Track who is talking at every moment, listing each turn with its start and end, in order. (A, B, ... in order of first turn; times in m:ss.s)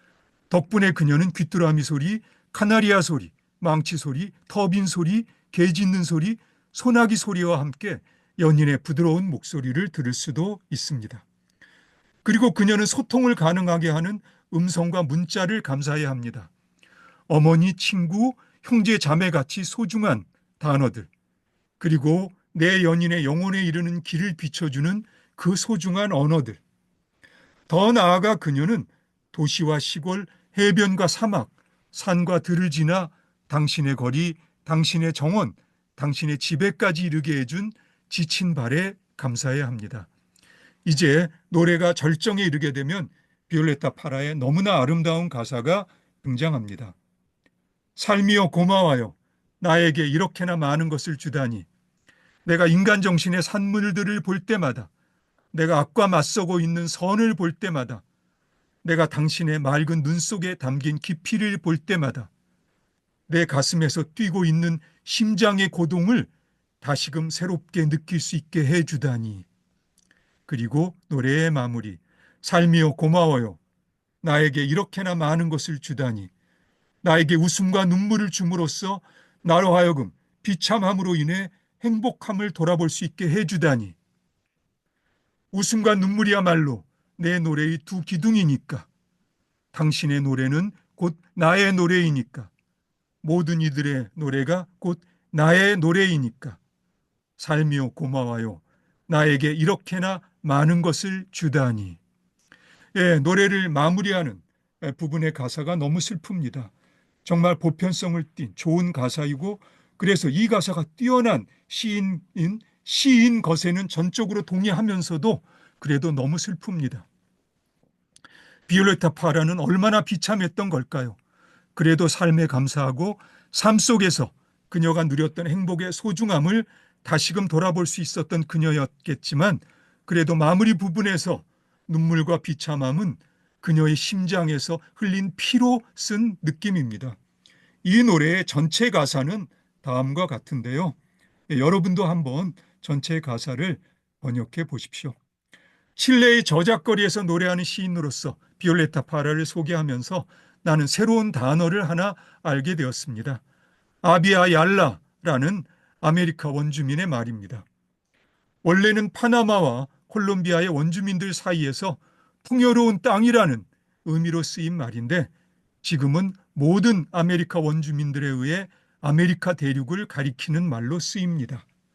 0:00.5-0:11.2 A
0:12.2-0:16.5 A
0:17.3-0:21.1 A
0:21.8-0:26.6 A
0:27.7-0:40.1 A
0:40.8-0:47.0 A
0:48.0-0:51.7 A
0:52.4-0:54.9 A
0:55.5-0:58.0 A
0:58.8-1:02.3 A
1:03.3-1:06.3 A
1:06.8-1:09.5 A
1:10.5-1:13.6 A
1:14.2-1:16.3 A
1:17.0-1:24.0 A
1:25.5-1:28.9 A
1:29.7-1:32.5 A
1:33.2-1:36.6 A
1:37.4-1:42.0 A
1:43.0-1:46.7 A
1:47.2-1:57.1 A
1:58.7-2:01.2 A
2:01.8-2:17.2 A
2:17.8-2:21.0 A
2:21.5-2:25.2 A
2:26.0-2:33.4 A
2:34.0-2:37.7 A
2:38.6-2:45.3 A
2:45.8-2:51.6 A